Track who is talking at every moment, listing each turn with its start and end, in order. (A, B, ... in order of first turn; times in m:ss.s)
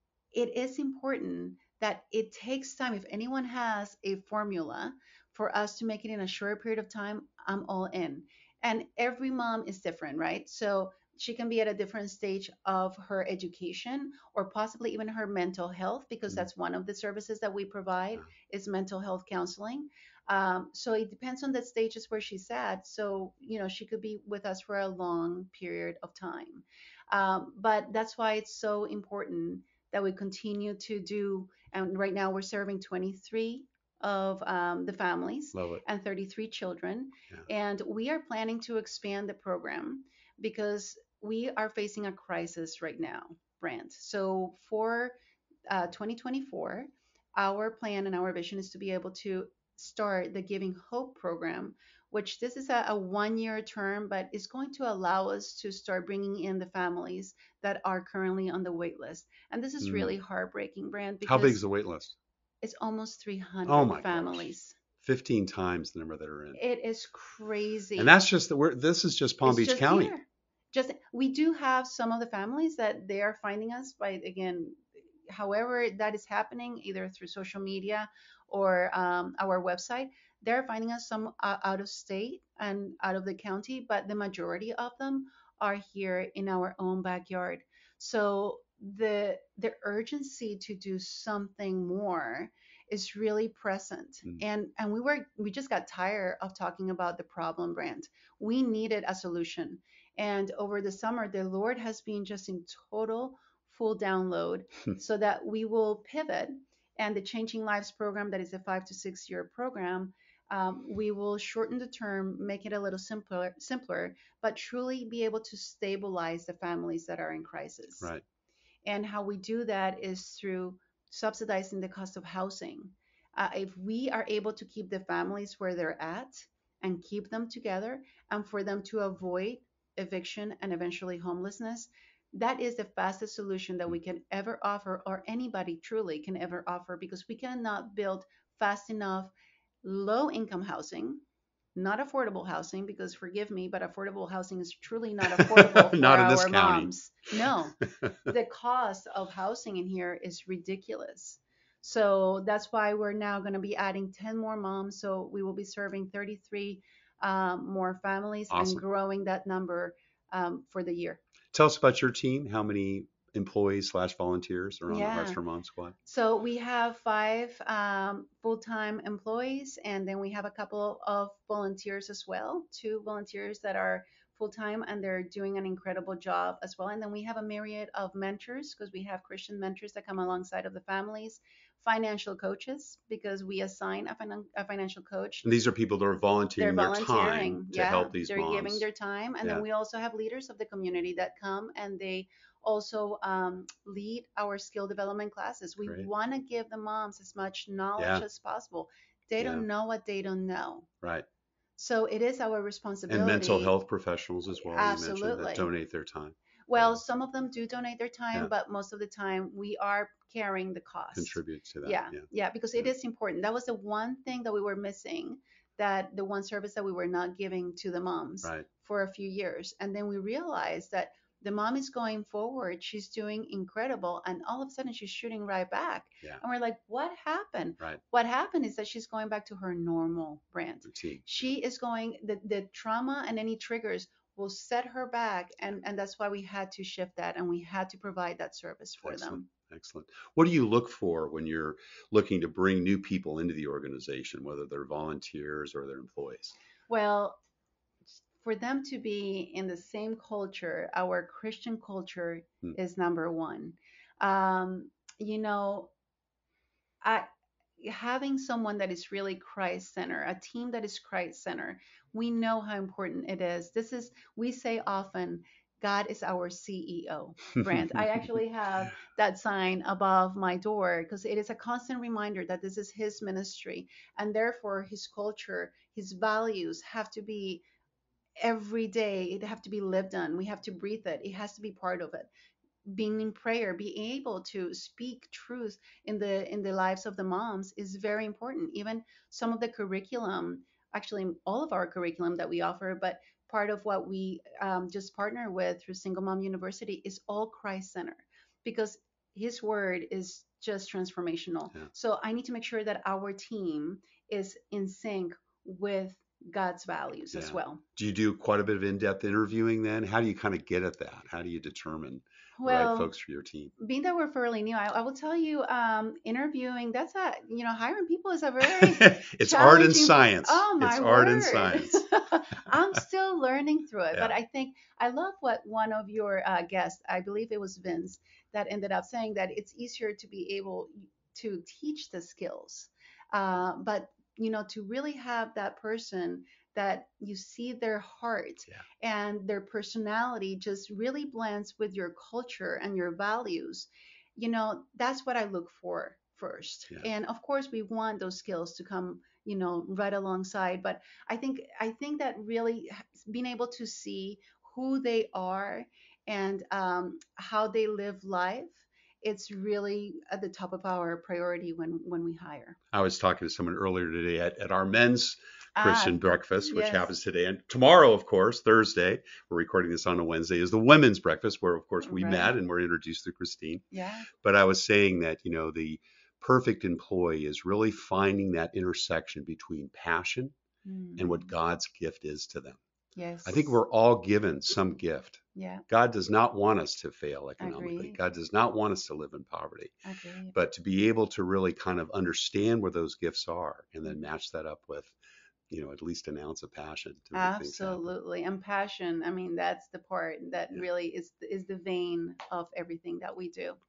0:00.3-0:45.2 A
0:35.5-0:35.8 B
0:45.7-1:01.6 A
0:59.8-1:00.1 B
1:01.2-1:02.2 B
1:02.6-1:04.8 A
1:03.6-1:06.6 B
1:06.5-1:08.1 A
1:08.0-1:10.1 B
1:09.4-1:58.1 A
1:58.8-2:19.3 A
2:19.8-2:21.2 A
2:21.8-2:41.2 A
2:25.4-2:26.9 B
2:38.5-2:38.8 B
2:41.5-2:46.0 B
2:44.9-2:45.4 A
2:46.0-3:05.5 A
3:05.4-3:08.8 B
3:06.6-3:20.9 A
3:15.8-3:16.1 B
3:18.0-3:18.2 B
3:19.4-3:19.6 B
3:21.8-3:23.7 A
3:23.1-3:27.0 B
3:24.6-3:25.7 A
3:26.7-3:59.5 A
3:31.1-3:32.2 B
3:50.9-3:51.4 B
3:59.0-4:06.6 B
4:06.9-4:07.4 A
4:08.4-4:15.9 A
4:17.8-4:37.6 A
4:27.6-4:27.9 B
4:38.4-4:42.3 A
4:42.8-5:07.8 A
5:07.3-5:13.7 B
5:12.6-5:13.1 A
5:13.8-6:02.8 A
5:18.6-5:22.0 B
6:02.9-6:20.5 B
6:05.8-6:07.1 A
6:12.0-6:12.5 A
6:13.9-6:14.3 A
6:20.8-6:21.5 A
6:21.2-6:22.8 B
6:23.2-6:23.8 A
6:23.4-6:30.0 B
6:25.5-6:25.8 A
6:27.6-6:28.2 A
6:30.0-6:30.5 A
6:30.5-6:35.2 B
6:35.7-6:38.1 B
6:37.3-6:43.8 A